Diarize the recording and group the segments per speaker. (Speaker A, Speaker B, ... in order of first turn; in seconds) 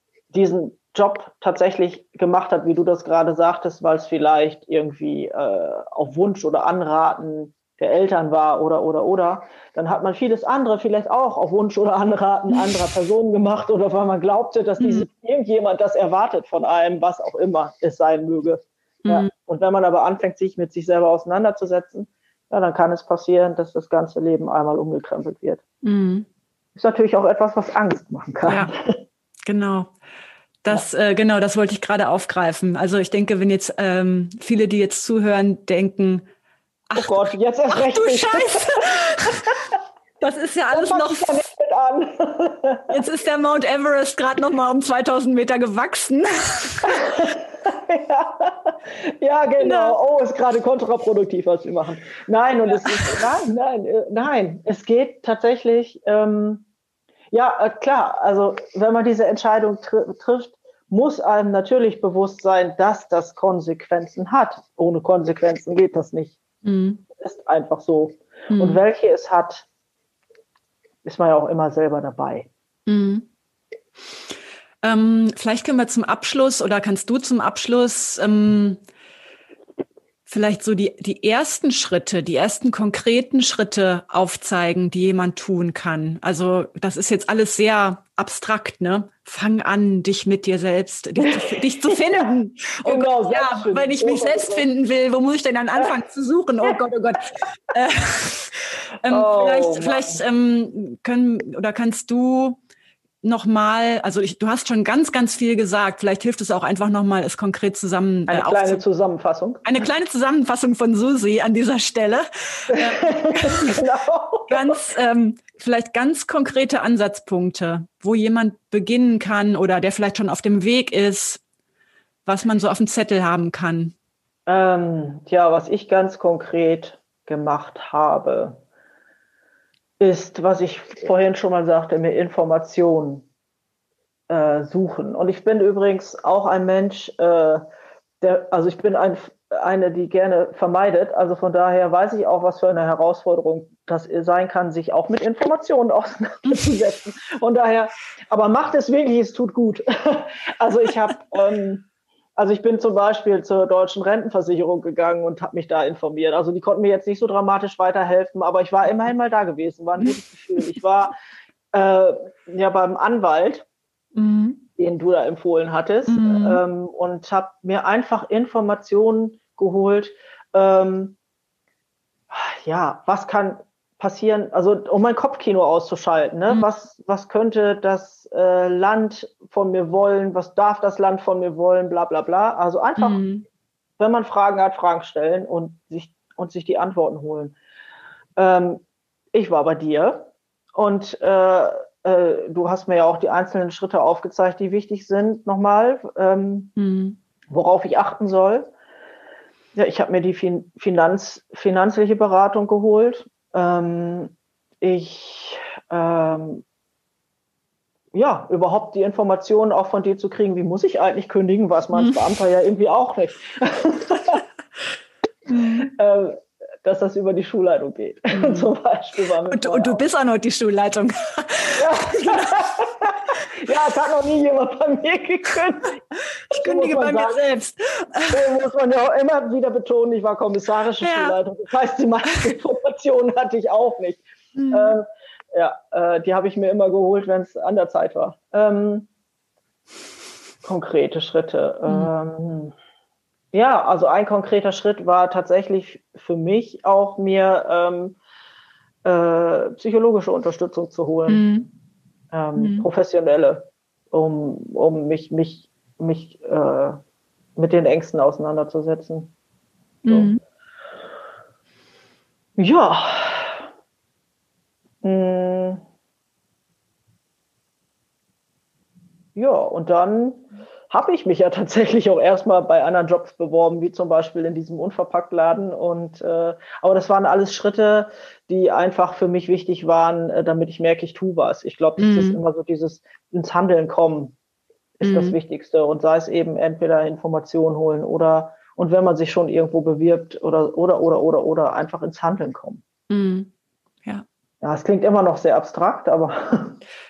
Speaker A: 0.3-25.6, 26.8-29.0, 37.0-39.5, 40.7-43.0, 46.9-56.6, 57.3-66.4, 67.2-69.7, 71.0-72.5, 91.2-92.2, 92.8-94.7, 99.1-100.2, 108.3-109.6, 112.7-114.8, 124.5-128.6, 130.0-133.2, 134.3-137.6, 138.2-161.1, 161.7-163.7, 164.8-171.2, 172.3-183.2, 184.0-187.6, 188.4-196.7, 197.5-198.7, 199.7-206.6, 208.1-214.4, 215.9-220.0, 221.8-227.3, 228.3-239.1, 240.6-242.7, 243.5-248.2, 249.0-251.5, 252.3-257.0, 257.6-259.3, 262.6-263.6, 265.0-265.8, 269.3-284.4, 285.0-292.8, 294.6-296.8
Speaker B: 14.8-15.1, 19.0-19.3, 25.8-26.2, 28.5-28.7, 29.4-29.9, 30.6-36.2, 36.9-39.5, 40.2-41.4, 42.9-47.0, 49.6-49.9, 52.8-53.2, 66.6-67.0, 68.5-68.8, 72.9-73.2, 74.8-78.8, 80.3-102.6, 103.2-108.8, 109.6-113.8, 114.5-121.4, 122.2-123.9, 164.1-164.6, 166.1-166.6, 183.0-183.4, 196.8-197.2, 215.5-215.9, 218.3-218.7, 219.5-222.7, 226.5-228.4, 231.0-231.4, 234.5-235.0, 251.3-251.7, 252.6-252.9, 260.0-260.4, 282.0-282.4, 285.0-285.4, 293.1-293.5